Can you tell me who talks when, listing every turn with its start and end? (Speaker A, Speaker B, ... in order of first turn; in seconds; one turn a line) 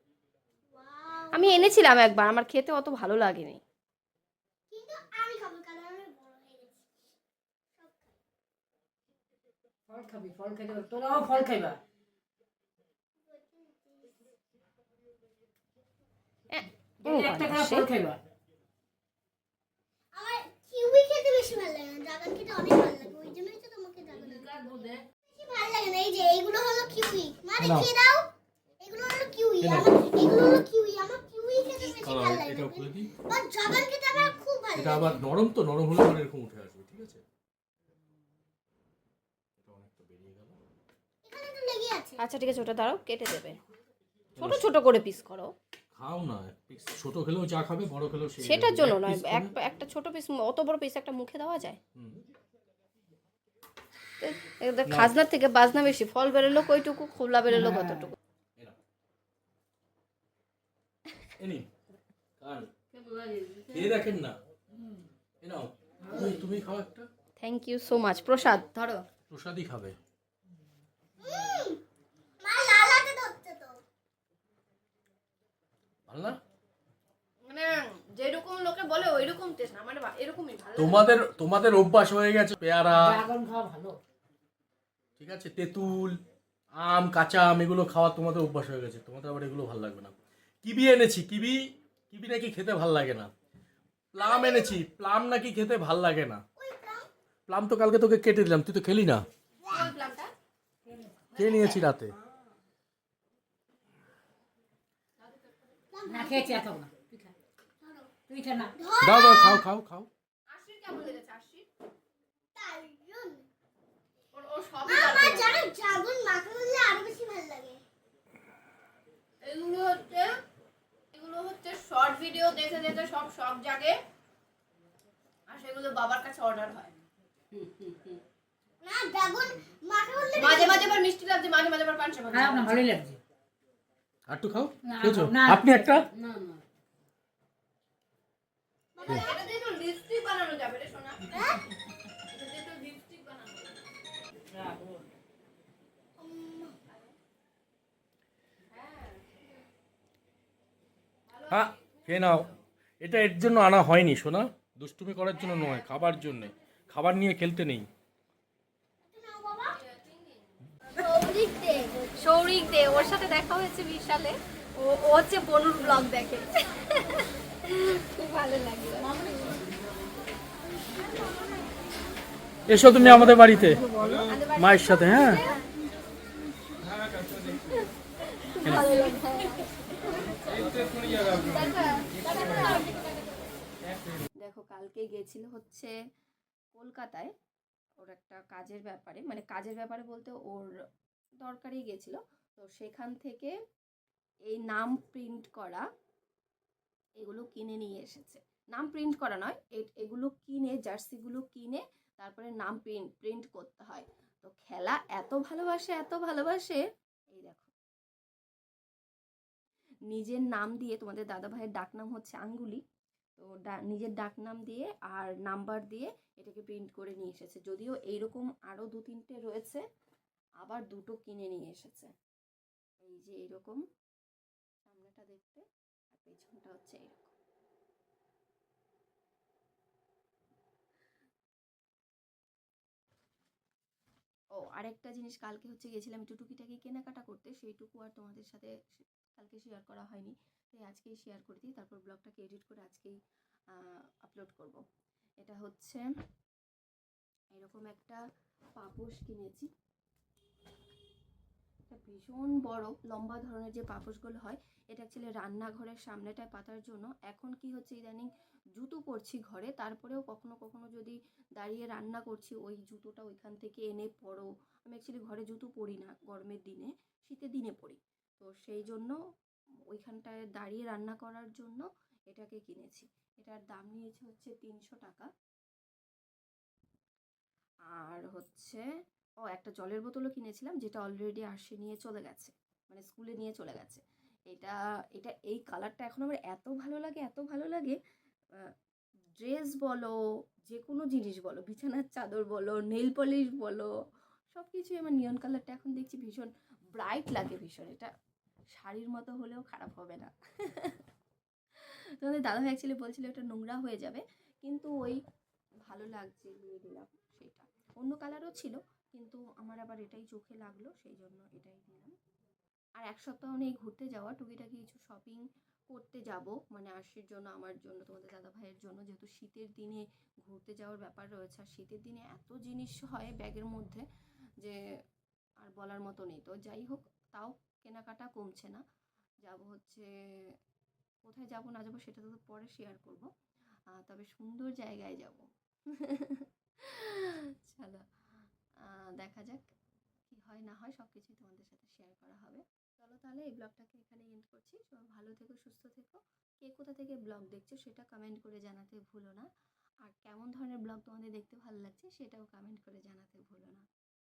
Speaker A: 0.7-1.8
Speaker B: 1.3-3.6
Speaker A: 4.7-6.8
Speaker A: 7.8-8.2
Speaker C: 9.9-11.8
Speaker A: 13.2-14.2
Speaker B: 16.5-17.9
Speaker C: 17.0-18.2
Speaker A: 20.1-35.2
Speaker D: 27.6-27.9
Speaker D: 29.6-29.9
Speaker D: 32.0-33.1
Speaker D: 34.8-37.2
Speaker D: 39.6-40.6
Speaker A: 41.2-42.2
Speaker B: 42.2-43.6
Speaker D: 44.4-44.6
Speaker B: 44.4-45.5
Speaker D: 45.9-49.5
Speaker B: 48.4-51.8
Speaker D: 52.0-52.2
Speaker B: 54.2-58.1
Speaker D: 54.9-55.1
Speaker C: 57.6-58.0
Speaker D: 61.4-61.7
Speaker D: 62.4-62.7
Speaker C: 63.0-63.6
Speaker D: 63.6-64.4
Speaker D: 65.4-67.1
Speaker C: 66.1-66.4
Speaker B: 67.4-69.0
Speaker D: 69.3-70.0
Speaker A: 71.2-71.8
Speaker A: 72.4-73.8
Speaker D: 76.1-76.4
Speaker B: 77.4-81.2
Speaker D: 80.8-83.2
Speaker C: 82.9-84.0
Speaker D: 85.2-86.2
Speaker D: 86.8-93.3
Speaker D: 94.1-96.4
Speaker A: 94.2-94.8
Speaker A: 96.6-97.1
Speaker D: 97.5-99.3
Speaker B: 99.7-100.3
Speaker C: 100.9-101.2
Speaker B: 101.3-101.8
Speaker D: 101.4-102.1
Speaker A: 105.9-106.6
Speaker C: 106.1-107.3
Speaker A: 107.8-108.2
Speaker C: 108.3-108.7
Speaker A: 108.8-109.6
Speaker D: 109.0-110.1
Speaker B: 110.5-111.7
Speaker A: 112.5-113.5
Speaker B: 114.3-115.5
Speaker A: 114.8-117.8
Speaker B: 119.4-120.4
Speaker B: 121.1-124.0
Speaker B: 125.5-126.9
Speaker A: 128.8-131.0
Speaker B: 130.3-132.8
Speaker C: 132.3-133.2
Speaker D: 134.3-136.1
Speaker C: 134.8-136.6
Speaker A: 138.9-139.5
Speaker B: 139.1-141.3
Speaker A: 141.3-141.6
Speaker B: 142.3-143.7
Speaker C: 144.5-145.1
Speaker A: 146.2-146.8
Speaker B: 146.8-147.1
Speaker B: 148.7-149.3
Speaker B: 151.3-152.6
Speaker D: 151.5-152.5
Speaker D: 153.0-157.9
Speaker B: 155.3-156.5
Speaker A: 159.1-159.8
Speaker B: 159.7-161.0
Speaker A: 161.0-162.1
Speaker B: 162.2-169.1
Speaker A: 169.2-169.6
Speaker D: 172.7-173.8
Speaker B: 172.9-175.7
Speaker D: 174.6-175.4
Speaker D: 176.9-177.6
Speaker B: 178.4-182.9
Speaker D: 178.6-178.9
Speaker D: 180.6-182.8
Speaker B: 184.4-185.9
Speaker B: 186.8-187.3
Speaker B: 188.0-190.7
Speaker B: 191.4-193.5
Speaker B: 194.5-195.8
Speaker B: 197.2-206.8
Speaker B: 207.3-207.7
Speaker B: 210.1-212.8
Speaker B: 213.4-219.8
Speaker B: 220.6-222.1
Speaker B: 223.1-223.8
Speaker B: 224.9-227.3
Speaker B: 234.6-243.2
Speaker B: 243.8-244.8
Speaker B: 245.4-246.1
Speaker B: 247.5-248.2
Speaker B: 248.8-249.7
Speaker B: 251.9-269.1
Speaker B: 269.9-275.3
Speaker B: 278.0-278.8
Speaker B: 279.5-288.0
Speaker B: 289.4-290.1
Speaker B: 290.7-293.9
Speaker B: 294.5-298.1
Speaker B: 298.7-301.0
Speaker B: 302.2-305.2
Speaker B: 305.9-312.1
Speaker B: 313.0-324.0
Speaker B: 325.6-328.8
Speaker B: 329.4-330.1
Speaker B: 331.3-333.3
Speaker B: 334.0-335.4
Speaker B: 336.0-338.0
Speaker B: 338.9-339.6
Speaker B: 340.3-349.5
Speaker B: 350.1-353.9